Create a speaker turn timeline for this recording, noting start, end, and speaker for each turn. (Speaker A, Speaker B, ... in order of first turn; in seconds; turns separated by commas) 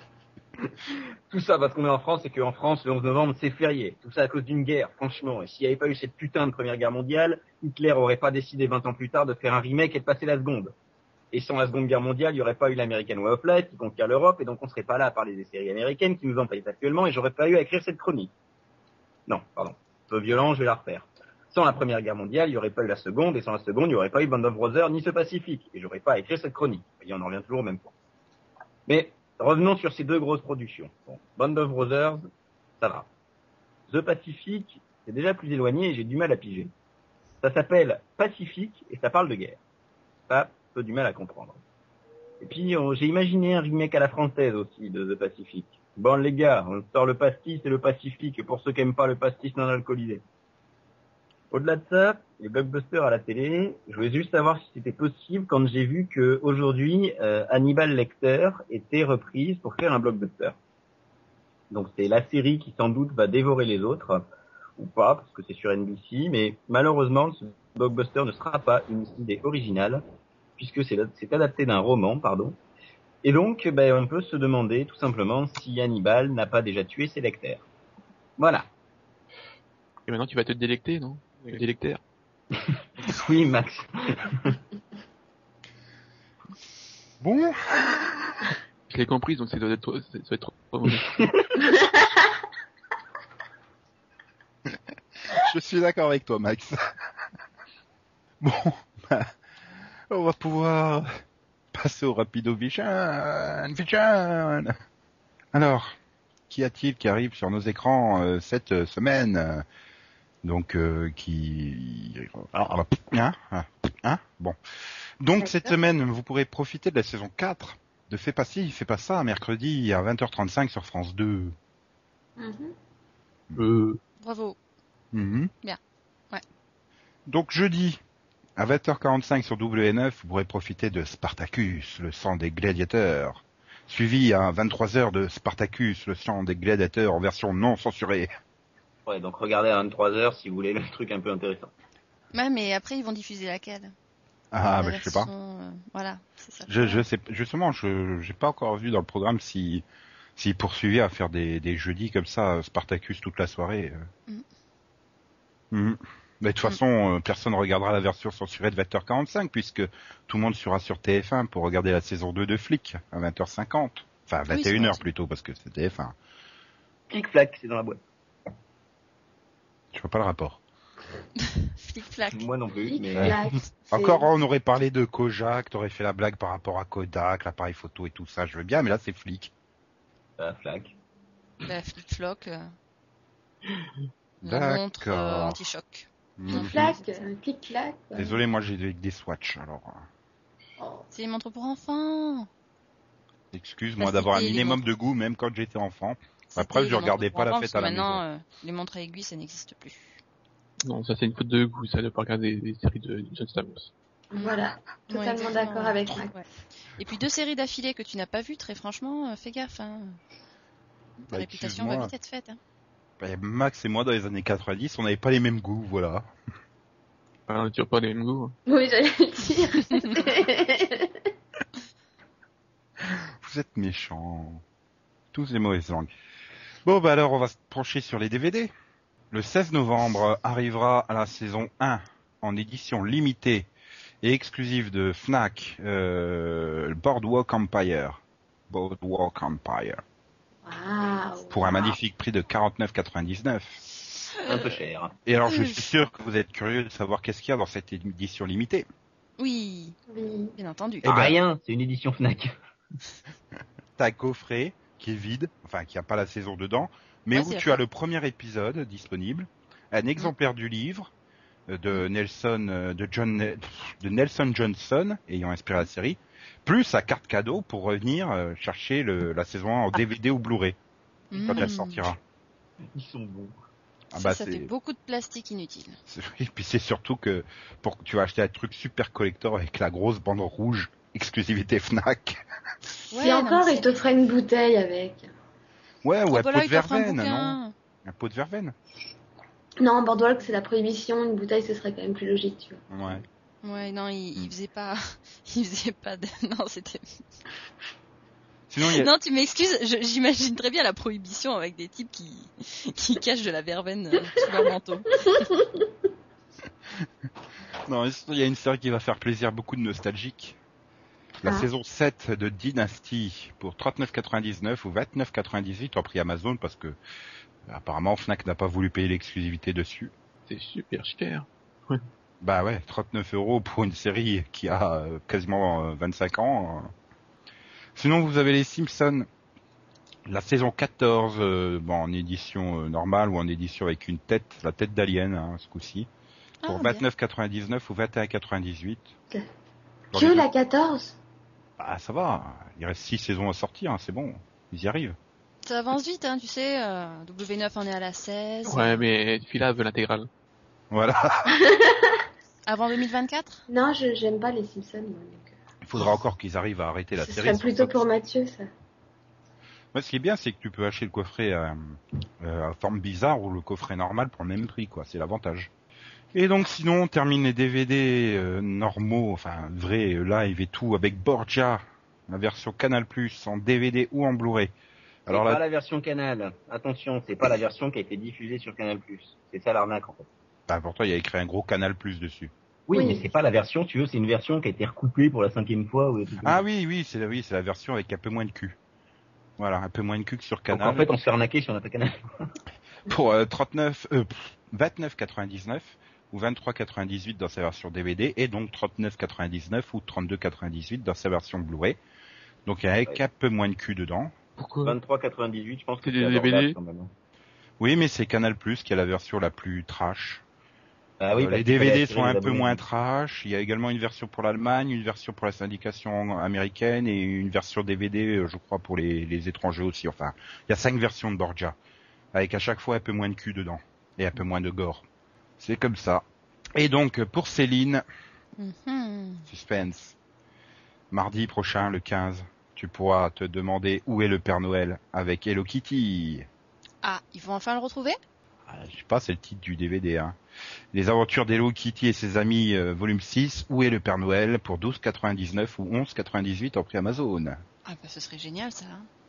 Speaker A: 1.3-10.7, Speaker A: 11.3-18.3, Speaker A: 19.3-27.9, Speaker A: 28.9-32.3, Speaker A: 32.8-33.1, Speaker A: 33.9-36.7, Speaker A: 37.4-39.6, Speaker A: 40.3-41.6, Speaker A: 42.4-50.2, Speaker A: 51.5-60.6, Speaker A: 61.7-70.0, Speaker A: 70.6-72.6, Speaker A: 73.2-77.6, Speaker A: 78.4-78.7, Speaker B: 80.1-82.0, Speaker A: 83.0-84.6, Speaker C: 87.2-87.6, Speaker B: 88.9-91.2, Speaker D: 91.6-92.3, Speaker C: 95.3-96.8, Speaker C: 98.4-99.3, Speaker C: 100.1-101.1, Speaker C: 101.7-104.7, Speaker C: 105.5-106.0, Speaker C: 106.5-109.6, Speaker C: 110.4-114.6, Speaker C: 115.2-121.5, Speaker E: 115.4-115.7, Speaker D: 122.4-122.7, Speaker B: 123.6-124.0, Speaker E: 124.2-124.6, Speaker C: 125.1-125.5, Speaker C: 127.3-128.0, Speaker C: 128.6-138.3, Speaker A: 139.1-141.7, Speaker E: 142.3-143.9, Speaker C: 144.5-145.3, Speaker E: 144.7-147.0, Speaker C: 146.7-149.8, Speaker C: 150.4-154.1, Speaker C: 155.7-166.2, Speaker E: 164.5-165.1, Speaker A: 167.1-168.0, Speaker C: 169.9-170.6, Speaker E: 171.5-172.4, Speaker A: 172.3-173.4, Speaker D: 172.9-174.2, Speaker C: 173.1-173.4, Speaker C: 173.9-179.5, Speaker A: 180.4-180.9, Speaker E: 181.7-182.7, Speaker C: 184.4-185.6, Speaker E: 184.4-187.1, Speaker C: 186.4-186.8, Speaker D: 186.5-188.4, Speaker C: 188.2-190.1, Speaker D: 190.8-191.1, Speaker E: 191.1-192.5, Speaker C: 193.5-198.2, Speaker E: 194.0-194.8, Speaker E: 196.5-200.2, Speaker B: 200.8-203.9, Speaker D: 204.3-206.3, Speaker E: 204.3-206.5, Speaker E: 207.0-210.2, Speaker C: 211.3-212.1, Speaker E: 211.3-212.6, Speaker C: 213.2-216.3, Speaker B: 217.5-218.6, Speaker D: 218.7-221.2, Speaker C: 223.0-224.6, Speaker C: 225.3-226.1, Speaker C: 226.8-228.7, Speaker C: 229.3-233.7, Speaker C: 234.2-240.0, Speaker D: 240.7-242.0, Speaker C: 241.5-244.1, Speaker A: 244.4-245.2, Speaker C: 245.3-248.9, Speaker E: 245.5-245.8, Speaker E: 249.4-250.0, Speaker D: 250.1-250.6, Speaker E: 250.6-251.1, Speaker C: 251.0-251.4, Speaker A: 251.0-252.5, Speaker C: 254.0-261.1, Speaker E: 257.3-257.8, Speaker C: 261.7-270.8, Speaker E: 271.3-272.1, Speaker C: 271.3-272.2, Speaker A: 272.9-273.6, Speaker C: 274.1-274.7, Speaker E: 274.1-276.0, Speaker C: 276.1-282.4, Speaker E: 283.1-284.0, Speaker D: 283.2-285.3, Speaker C: 286.0-288.7, Speaker E: 286.3-287.7, Speaker D: 289.8-292.8, Speaker C: 292.9-293.2, Speaker E: 293.6-297.0, Speaker C: 298.7-299.1, Speaker E: 298.8-305.2, Speaker D: 305.2-305.8, Speaker C: 307.9-310.6, Speaker C: 311.4-317.0, Speaker C: 317.7-320.1, Speaker B: 320.5-322.0, Speaker C: 322.4-326.9, Speaker C: 327.9-329.3, Speaker C: 330.3-336.1, Speaker E: 336.6-337.0, Speaker C: 336.7-339.1, Speaker C: 340.1-340.5, Speaker D: 340.1-341.2, Speaker C: 341.8-345.2, Speaker E: 345.6-349.0, Speaker B: 348.7-350.3, Speaker C: 350.9-351.6, Speaker D: 351.6-352.2, Speaker E: 352.7-353.6, Speaker D: 353.7-355.5, Speaker C: 355.8-358.0, Speaker D: 357.2-358.7, Speaker C: 359.9-365.7, Speaker C: 366.3-374.7, Speaker C: 375.3-375.6, Speaker A: 375.3-380.3, Speaker C: 380.7-382.5, Speaker A: 382.9-386.6, Speaker D: 382.9-383.3, Speaker C: 386.4-388.8, Speaker C: 389.6-391.1, Speaker A: 390.7-392.5, Speaker C: 393.1-402.0, Speaker C: 402.7-404.3, Speaker B: 404.6-405.0, Speaker A: 404.8-407.1, Speaker B: 406.0-406.8, Speaker C: 407.8-410.4, Speaker A: 411.2-412.8, Speaker C: 411.4-421.8, Speaker C: 422.3-425.1, Speaker C: 425.6-428.0, Speaker E: 428.6-429.5, Speaker C: 429.5-430.2, Speaker C: 431.1-436.5, Speaker E: 437.0-438.2, Speaker C: 438.7-440.4, Speaker C: 440.9-447.6, Speaker E: 447.9-449.1